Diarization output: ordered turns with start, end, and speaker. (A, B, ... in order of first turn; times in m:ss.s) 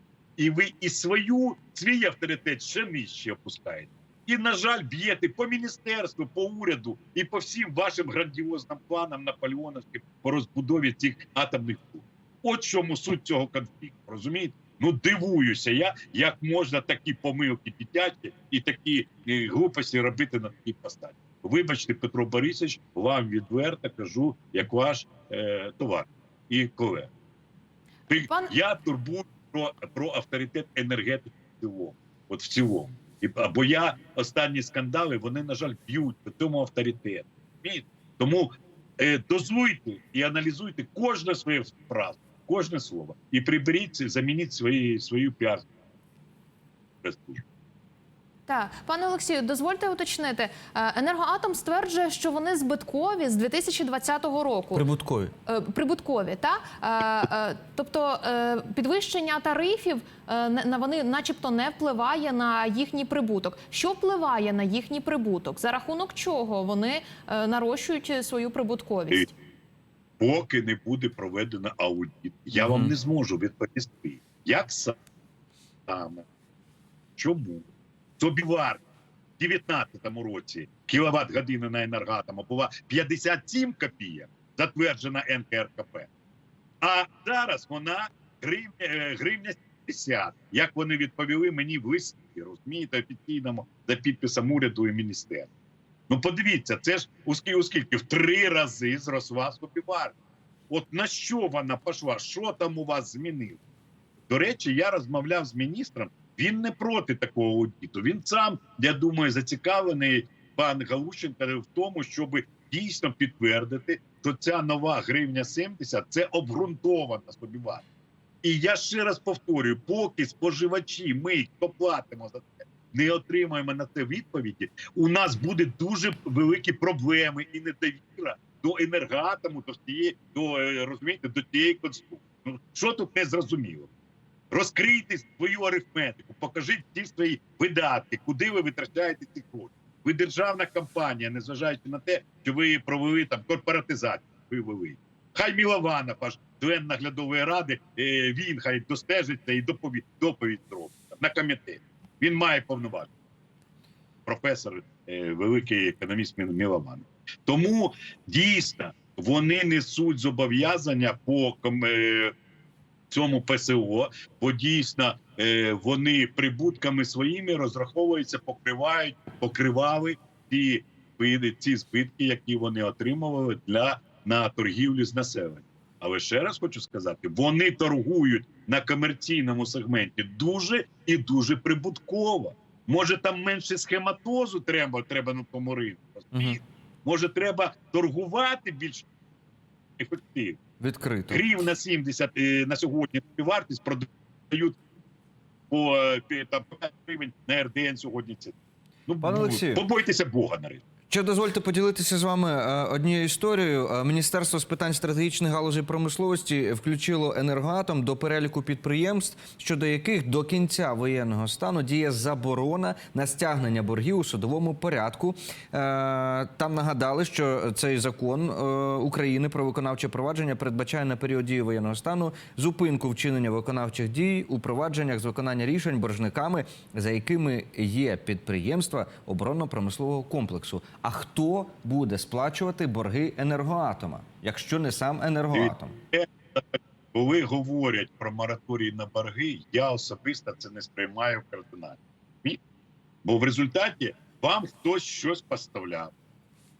0:00.4-0:27.1 A
0:28.1-0:45.7 A
0:28.2-0:28.5 B
0:47.0-0:47.4 A
0:48.5-0:54.8 B
0:54.7-0:55.3 C
0:55.4-1:09.3 B
1:10.2-1:15.0 A
1:12.6-1:12.9 C
1:15.9-1:16.2 A
1:17.2-1:17.7 A
1:18.2-1:18.8 A
1:19.4-1:26.1 A
1:26.8-1:35.5 A
1:36.1-1:40.1 A
1:40.7-1:43.6 A
1:44.3-1:57.8 A
1:58.4-2:13.9 A
2:14.5-2:33.1 A
2:34.3-2:42.3 A
2:43.1-3:09.1 A
3:06.3-3:06.6 C
3:10.0-3:10.6 A
3:10.8-3:11.4 C
3:11.3-3:14.8 A
3:15.7-3:18.6 A
3:19.1-3:20.8 A
3:19.2-3:19.8 C
3:21.1-3:56.0 C
3:55.5-4:02.6 A
4:03.2-4:06.1 A